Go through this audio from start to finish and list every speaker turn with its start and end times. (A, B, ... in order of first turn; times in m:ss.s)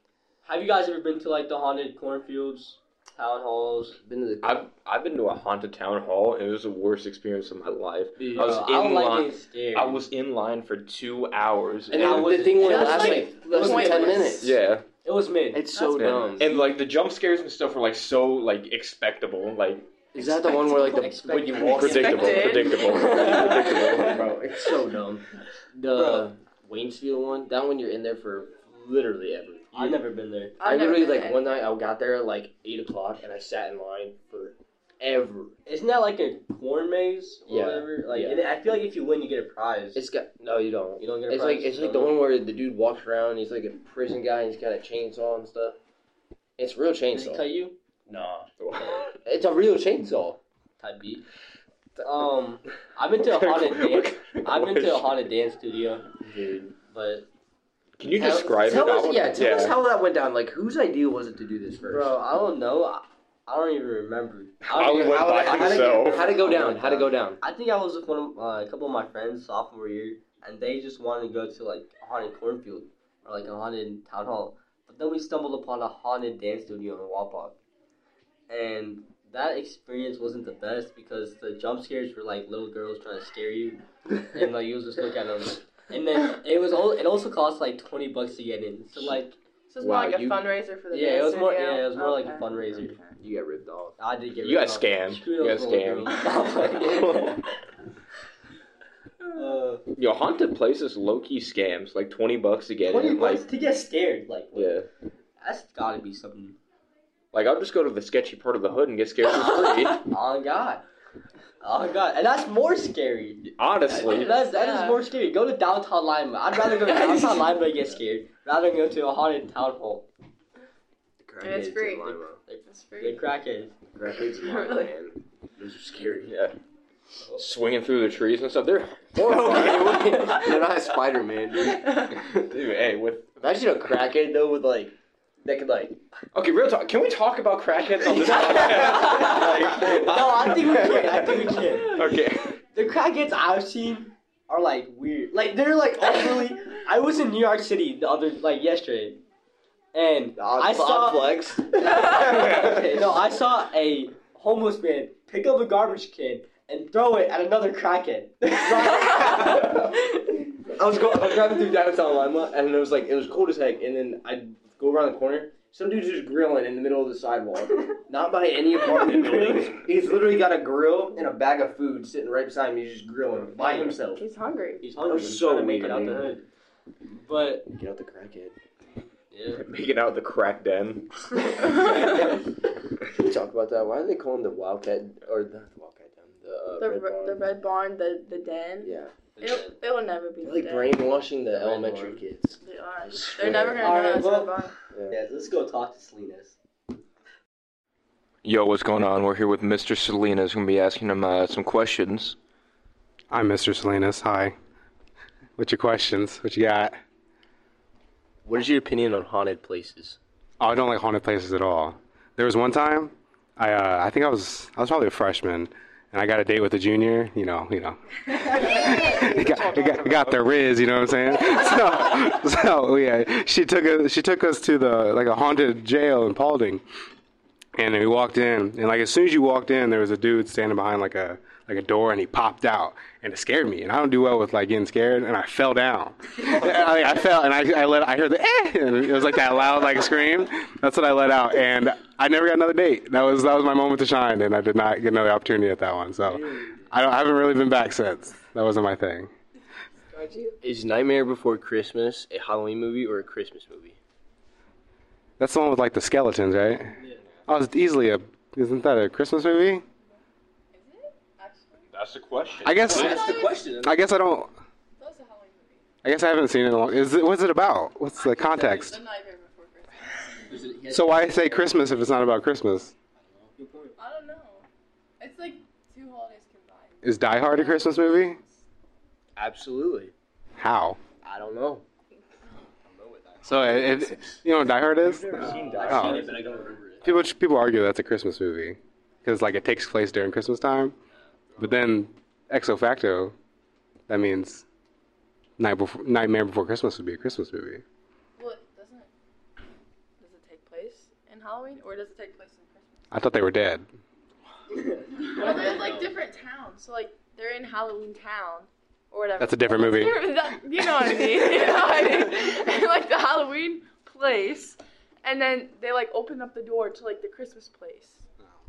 0:00.4-0:04.0 A
0:04.0-0:04.6 B
0:04.4-0:12.5 C
0:08.2-0:10.0 A
0:11.9-0:14.5 B
0:11.9-0:14.4 A
0:12.5-0:14.4 D
0:14.4-0:14.8 C
0:15.0-0:16.1 A
0:15.5-0:16.5 B
0:15.8-0:16.4 D
0:15.9-0:19.9 C
0:20.1-0:30.0 B
0:20.5-0:24.2 A
0:21.4-0:24.3 C
0:21.8-0:23.6 D
0:25.9-0:26.3 A
0:29.7-0:30.6 A
0:30.6-0:31.6 D
0:30.6-0:35.5 B
0:35.6-0:40.0 A
0:37.5-0:38.4 B
0:39.9-0:45.8 B
0:41.0-0:42.2 A
0:46.6-0:47.4 B
0:47.1-0:47.7 A
0:48.1-0:48.5 B
0:48.6-0:49.1 C
0:48.7-0:49.1 A
0:49.2-0:50.4 B
0:50.8-0:51.2 A
0:52.0-0:56.1 A
0:53.3-0:55.2 C
0:56.2-0:56.7 B
0:56.8-0:57.2 A
0:58.0-0:59.8 C
0:58.1-1:02.2 B
1:01.9-1:17.6 A
1:04.6-1:06.6 C
1:04.8-1:07.4 B
1:18.5-1:29.4 A
1:29.7-1:33.1 D
1:29.8-1:30.5 B
1:30.9-1:33.0 A
1:33.2-1:34.0 B
1:34.0-1:37.5 A
1:34.4-1:37.4 C
1:39.3-1:39.8 A
1:39.9-1:43.4 C
1:42.8-1:44.8 A
1:44.5-1:44.8 C
1:45.4-1:46.6 A
1:47.3-1:50.0 C
1:49.9-1:50.8 A
1:51.6-2:00.1 A
1:53.4-1:54.3 C
1:54.0-1:55.0 D
1:56.8-1:57.4 D
2:01.2-2:02.4 B
2:01.4-2:02.1 D
2:02.0-2:03.7 A
2:02.7-2:03.2 D
2:03.9-2:06.5 B
2:04.4-2:04.9 D
2:06.2-2:06.5 C
2:07.4-2:10.3 C
2:09.1-2:11.9 B
2:11.7-2:12.2 D
2:12.2-2:13.3 C
2:13.4-2:16.0 B
2:16.3-2:22.5 C
2:18.1-2:19.1 B
2:18.2-2:29.2 A
2:29.9-2:31.2 A
2:30.4-2:32.8 B
2:31.8-2:40.4 A
2:38.6-2:39.8 B
2:40.7-2:54.2 B
2:49.0-2:49.7 A
2:54.1-2:54.8 D
2:54.8-2:56.4 A
2:55.0-2:56.3 B
2:57.1-2:57.7 A
2:57.7-2:58.5 B
2:59.3-2:59.6 A
2:59.5-3:02.3 C
3:01.6-3:02.1 D
3:03.1-3:07.5 B
3:06.8-3:11.0 D
3:08.8-3:09.1 B
3:09.3-3:09.8 A
3:10.4-3:14.0 B
3:11.5-3:12.2 A
3:12.6-3:14.8 D
3:13.8-3:16.6 A
3:18.4-3:22.4 C
3:23.3-3:24.5 E
3:25.6-3:26.9 E
3:28.4-3:30.2 B
3:30.6-3:46.8 E
3:38.6-3:39.4 B
3:38.6-3:40.6 C
3:47.8-4:09.3 E
4:06.3-4:06.8 B
4:10.0-4:10.6 D
4:10.6-4:14.0 B
4:15.4-4:19.8 E
4:20.7-4:21.9 D
4:21.9-4:23.2 C
4:22.6-4:24.5 E
4:22.8-4:23.5 D
4:22.9-4:23.9 B
4:25.0-4:25.9 D
4:26.0-4:29.0 E
4:28.2-4:30.6 D
4:30.5-4:31.4 B
4:30.6-4:30.8 A
4:30.9-4:32.9 E
4:33.6-4:33.9 A
4:34.0-4:34.7 D
4:35.2-4:38.6 D
4:37.0-4:38.4 E
4:39.4-4:40.1 B
4:40.6-4:41.0 E
4:41.2-4:41.8 B
4:42.8-4:44.4 B
4:43.4-4:46.2 E
4:45.0-4:46.4 C
4:45.3-4:47.1 B
4:47.0-4:50.9 E
4:51.6-4:53.3 E
4:54.1-4:54.6 E
4:55.6-4:57.8 E
4:58.4-4:59.1 D
5:00.2-5:03.1 D
5:03.1-5:03.8 E
5:05.1-5:18.2 D
5:05.2-5:05.9 A
5:09.4-5:10.2 E